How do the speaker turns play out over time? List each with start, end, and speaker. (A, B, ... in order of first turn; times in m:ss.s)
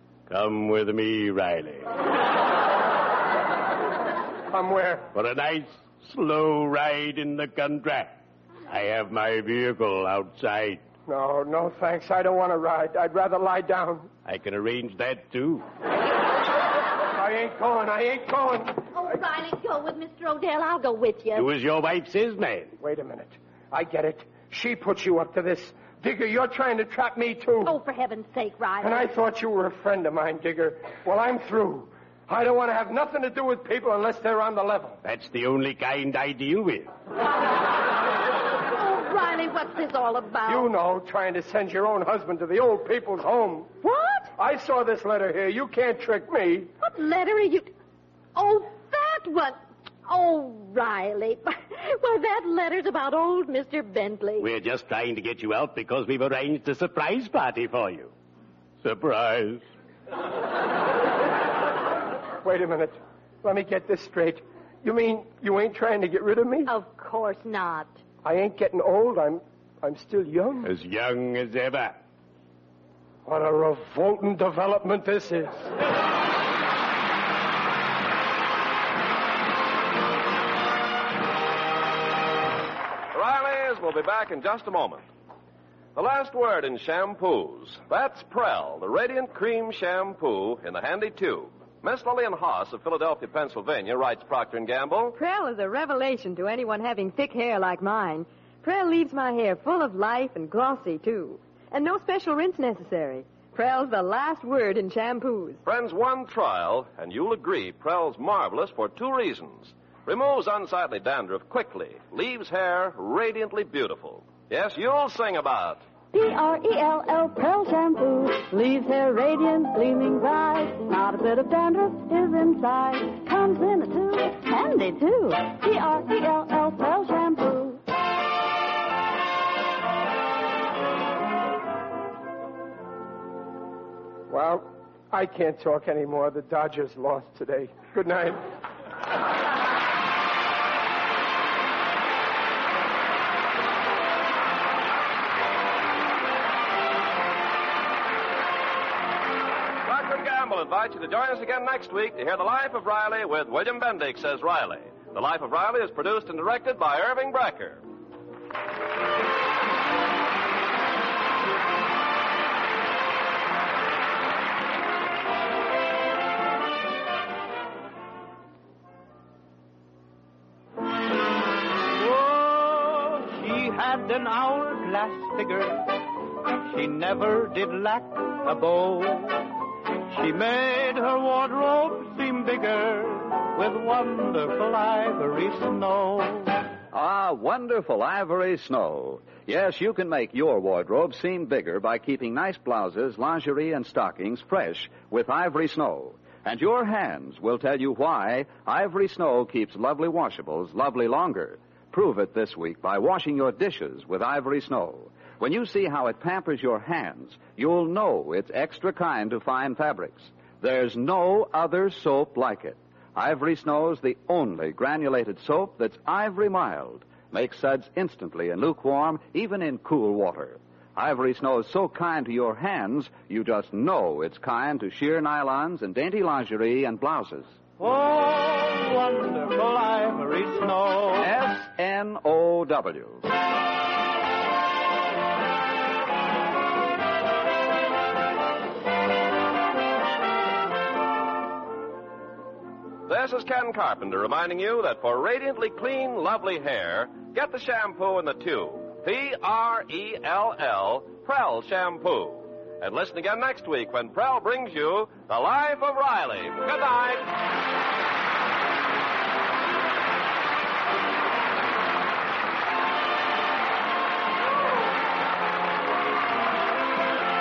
0:00.3-0:01.9 A
0:04.5-0:05.1 B
0:05.1-0:08.1 A
0:08.7-0:10.8 A
0:11.1-0:14.1 B
0:14.3-0:15.6 A
0:17.1-0:18.8 B
0:18.9-0:21.5 C
0:21.4-0:22.8 A
0:22.8-0:27.8 B
0:27.6-0:29.1 C
0:28.8-0:35.0 B
0:35.0-0:36.9 A
0:38.8-0:40.7 C
0:40.4-0:43.7 B
0:43.8-0:44.3 C
0:44.4-0:46.7 B
0:46.8-0:47.7 C
0:48.4-0:54.5 C
0:54.4-0:58.1 A
0:58.8-0:59.6 A
1:02.4-1:06.7 B
1:06.7-1:08.0 C
1:08.2-1:10.7 B
1:10.6-1:12.0 A
1:13.3-1:15.7 B
1:23.1-1:25.0 D
1:26.0-1:35.2 D
1:35.2-1:45.6 E
1:45.6-1:55.8 D
1:56.1-2:07.8 F
2:14.3-2:18.4 B
2:29.8-2:37.8 D
2:51.9-2:55.8 G
2:56.6-2:59.5 G
3:00.1-3:06.6 G
3:07.0-3:47.4 H
3:47.8-3:51.3 G
3:51.4-3:53.1 H
4:03.1-4:17.3 D